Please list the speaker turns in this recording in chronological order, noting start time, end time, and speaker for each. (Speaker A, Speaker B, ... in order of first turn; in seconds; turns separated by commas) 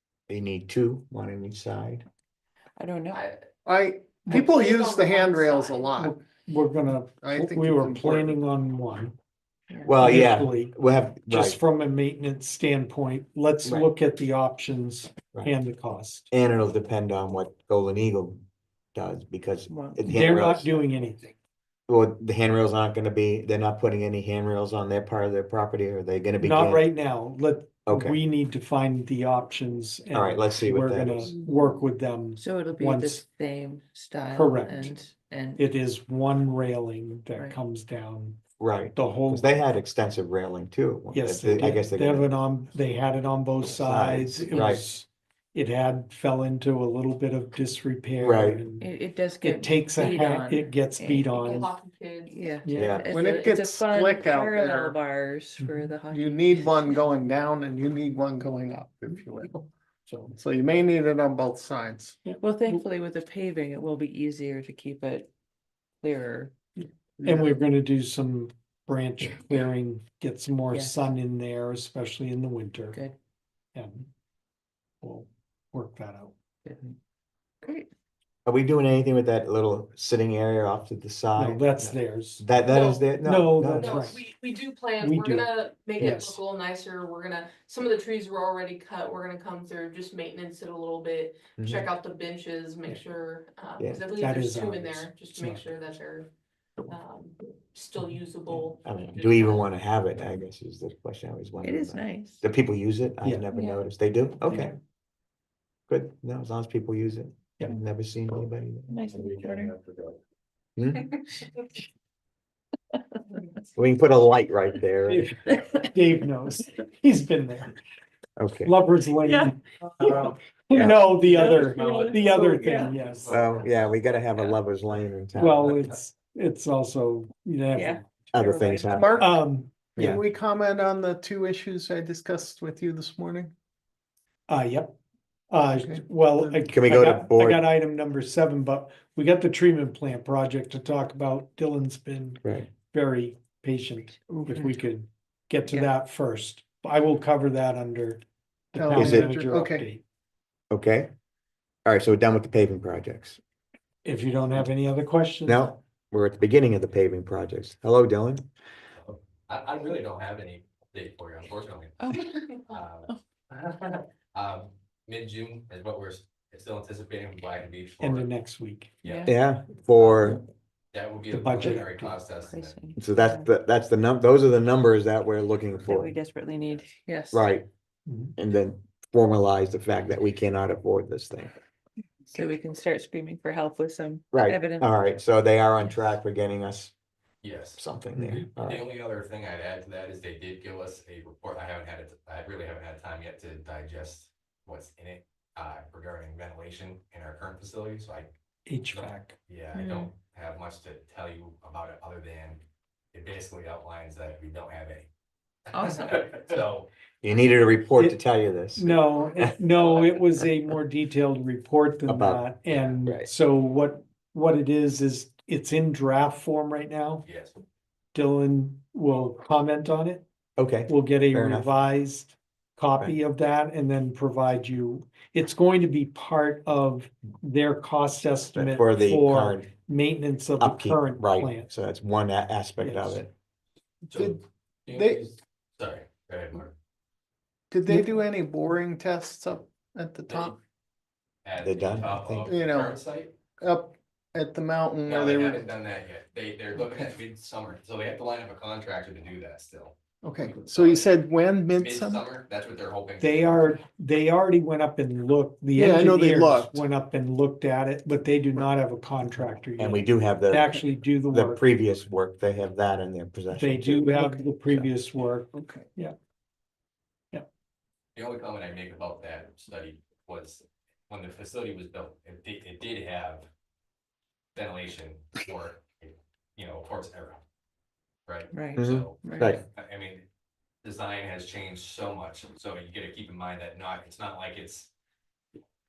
Speaker A: 0.3-2.0, Speaker B: 2.8-3.2, Speaker C: 3.1-3.5, Speaker D: 3.6-6.2, Speaker C: 4.3-6.0, Speaker E: 6.0-9.1, Speaker D: 7.2-8.3, Speaker B: 9.7-10.0, Speaker A: 9.8-11.6, Speaker E: 10.0-16.3, Speaker A: 16.3-18.4, Speaker A: 18.9-20.8, Speaker B: 19.7-20.2, Speaker E: 20.0-21.2, Speaker A: 21.9-26.9, Speaker E: 26.4-33.2, Speaker A: 27.9-28.2, Speaker A: 30.1-31.3, Speaker B: 32.4-35.6, Speaker E: 34.3-35.0, Speaker E: 35.6-38.4, Speaker A: 38.6-42.3, Speaker E: 38.9-39.5, Speaker E: 41.1-48.9, Speaker A: 43.7-44.8, Speaker A: 48.2-48.6, Speaker B: 48.8-51.5, Speaker E: 49.4-51.7, Speaker C: 51.3-52.6, Speaker B: 52.3-57.1, Speaker E: 52.6-53.1, Speaker A: 52.7-53.1, Speaker D: 53.1-55.0, Speaker E: 55.6-55.9, Speaker D: 56.1-59.7, Speaker E: 60.1-60.3, Speaker D: 60.3-62.2, Speaker E: 62.2-62.8, Speaker B: 62.3-65.3, Speaker B: 66.0-66.5, Speaker E: 66.8-73.0, Speaker D: 67.2-67.6, Speaker B: 70.7-71.1, Speaker E: 73.7-74.1, Speaker E: 75.0-76.3, Speaker B: 76.6-76.9, Speaker B: 77.6-77.9, Speaker A: 78.5-84.0, Speaker E: 81.3-82.5, Speaker C: 82.6-83.1, Speaker E: 83.2-84.2, Speaker C: 83.7-96.3, Speaker E: 85.0-86.4, Speaker A: 91.6-91.9, Speaker E: 94.2-95.6, Speaker C: 96.9-99.7, Speaker E: 98.0-98.6, Speaker A: 98.8-104.8, Speaker B: 101.6-102.4, Speaker B: 103.5-103.8, Speaker A: 105.9-109.0, Speaker B: 108.9-109.7, Speaker F: 109.1-110.1, Speaker A: 110.8-111.1, Speaker A: 113.8-115.3, Speaker E: 115.1-117.8, Speaker B: 115.5-115.9, Speaker A: 118.4-118.7, Speaker E: 118.6-123.4, Speaker B: 119.2-120.3, Speaker A: 120.7-121.0, Speaker B: 121.1-122.9, Speaker F: 121.5-123.9, Speaker A: 123.3-125.8, Speaker E: 125.4-128.1, Speaker B: 127.7-129.2, Speaker A: 128.3-129.1, Speaker D: 128.9-129.4, Speaker E: 129.2-130.2, Speaker D: 129.9-133.5, Speaker E: 134.5-134.9, Speaker E: 135.5-150.0, Speaker D: 135.7-136.5, Speaker A: 136.7-137.6, Speaker A: 142.4-142.7, Speaker B: 144.5-144.8, Speaker D: 148.7-149.8, Speaker A: 148.9-149.3, Speaker A: 150.7-151.1, Speaker A: 151.8-153.4, Speaker E: 154.0-155.7, Speaker A: 155.4-158.5, Speaker F: 158.9-162.1, Speaker B: 162.0-163.2, Speaker F: 162.7-168.3, Speaker E: 168.0-168.9, Speaker F: 169.0-169.3, Speaker B: 169.0-169.3, Speaker A: 169.2-170.4, Speaker F: 170.9-172.8, Speaker E: 171.3-172.1, Speaker B: 172.3-173.5, Speaker A: 173.0-176.1, Speaker B: 175.8-177.5, Speaker A: 177.3-177.7, Speaker E: 178.1-178.3, Speaker A: 178.4-181.5, Speaker B: 182.3-184.9, Speaker A: 184.3-186.9, Speaker F: 187.4-198.3, Speaker A: 187.8-188.8, Speaker E: 198.7-199.3, Speaker F: 198.9-202.6, Speaker B: 199.7-200.1, Speaker F: 203.1-205.1, Speaker B: 205.7-206.5, Speaker F: 205.7-206.9, Speaker A: 207.2-209.5, Speaker E: 208.8-217.2, Speaker F: 209.8-210.2, Speaker A: 212.1-212.4, Speaker F: 212.7-213.0, Speaker A: 213.0-213.3, Speaker F: 217.2-217.6, Speaker E: 218.1-220.2, Speaker A: 220.6-221.7, Speaker E: 220.9-231.7, Speaker A: 228.5-229.7, Speaker A: 230.6-233.3, Speaker E: 232.8-233.2, Speaker F: 234.1-236.7, Speaker D: 234.1-235.3, Speaker D: 237.7-240.6, Speaker E: 237.9-238.1, Speaker F: 240.3-240.6, Speaker F: 241.4-243.3, Speaker A: 241.6-242.5, Speaker D: 242.5-243.0, Speaker D: 243.6-245.6, Speaker F: 245.1-251.1, Speaker D: 250.2-252.2, Speaker F: 251.8-253.8, Speaker E: 253.2-261.6, Speaker D: 255.7-256.8, Speaker A: 259.8-260.7, Speaker A: 261.3-264.9, Speaker E: 263.5-266.1, Speaker D: 265.6-265.8, Speaker F: 268.1-273.5, Speaker F: 274.5-277.4, Speaker F: 278.3-280.2, Speaker B: 278.5-279.6, Speaker A: 278.8-279.6, Speaker F: 280.8-284.9